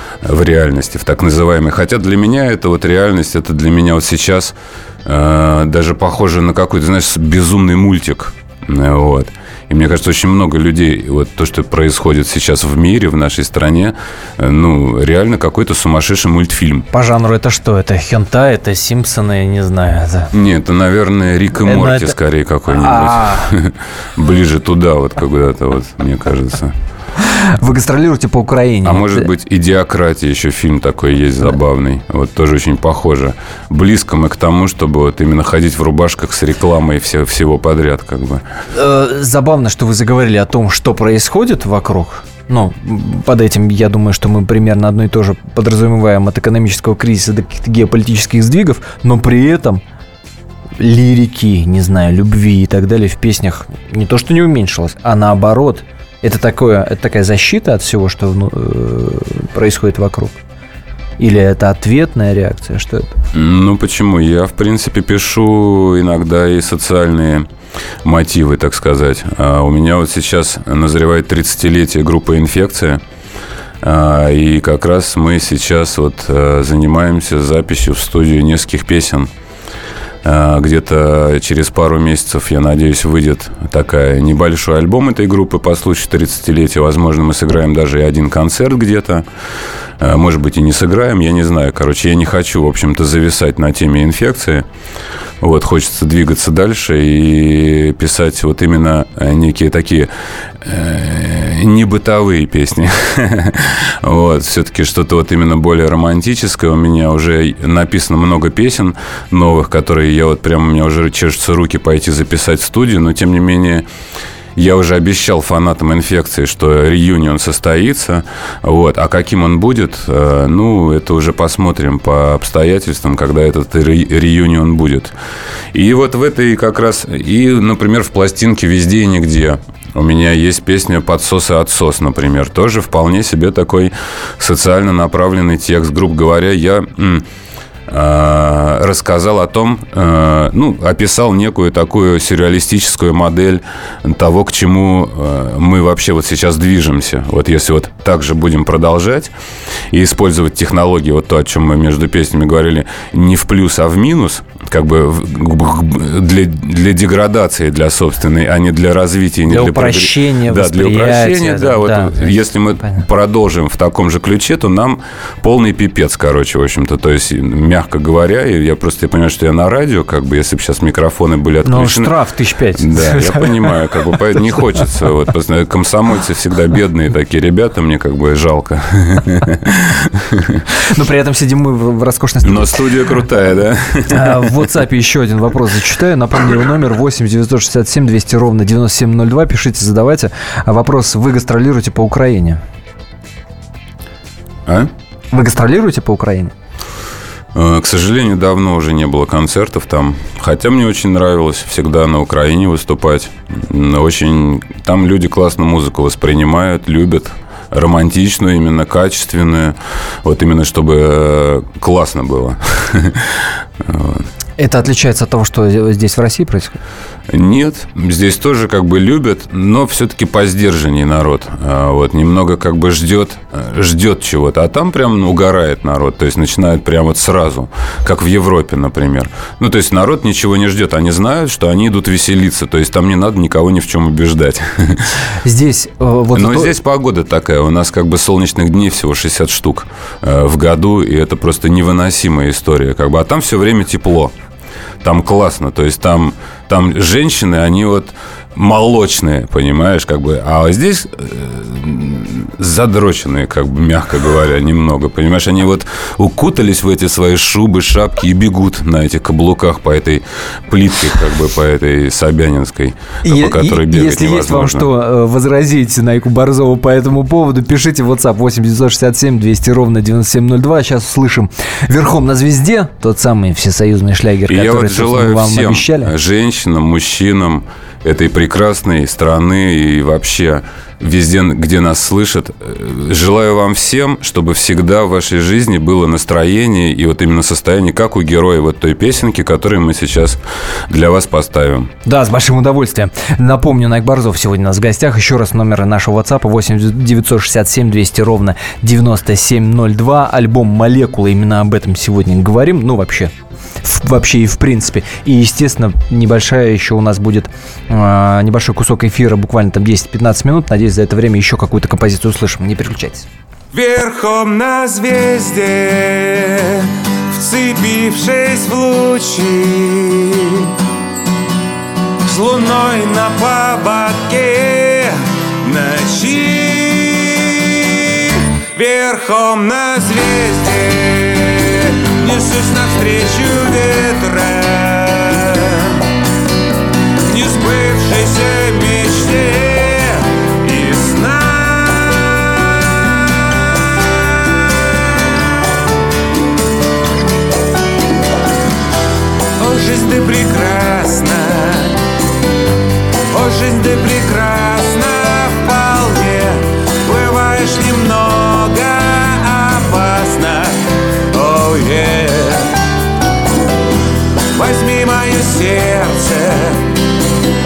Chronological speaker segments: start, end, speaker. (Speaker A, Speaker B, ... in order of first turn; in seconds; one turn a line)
Speaker A: 0.2-16.9
Speaker B: 16.9-20.3
Speaker A: 20.3-26.7
Speaker B: 21.6-22.1
Speaker B: 22.7-23.5
Speaker B: 27.2-29.3
Speaker A: 28.8-38.4
Speaker B: 38.7-49.8
Speaker B: 50.8-60.4
Speaker B: 61.2-63.1
Speaker A: 63.3-67.5
Speaker A: 68.0-73.0
Speaker A: 73.8-79.3
Speaker A: 80.2-89.2
Speaker A: 90.0-94.6
Speaker A: 95.4-100.1
Speaker A: 100.6-113.8
Speaker A: 114.5-125.1
Speaker A: 125.7-137.2
Speaker A: 137.9-149.3
Speaker A: 149.9-172.1
Speaker B: 159.5-163.0
Speaker B: 171.6-173.7
Speaker A: 172.8-180.6
Speaker B: 180.8-182.8
Speaker A: 182.4-184.5
Speaker B: 184.1-192.6
Speaker A: 194.7-194.9
Speaker B: 195.3-196.5
Speaker A: 197.5-214.3
Speaker B: 214.6-216.8
Speaker A: 217.3-235.1
Speaker B: 235.4-236.7
Speaker A: 236.3-244.3
Speaker A: 245.0-264.9
Speaker B: 263.2-276.1
Speaker A: 274.5-291.9
Speaker B: 292.0-303.3
Speaker B: 303.8-313.3
Speaker C: 313.7-320.7
Speaker C: 322.2-336.0
Speaker C: 337.2-343.4
Speaker C: 344.4-345.4
Speaker C: 349.6-352.0
Speaker C: 353.3-362.8
Speaker C: 364.5-366.9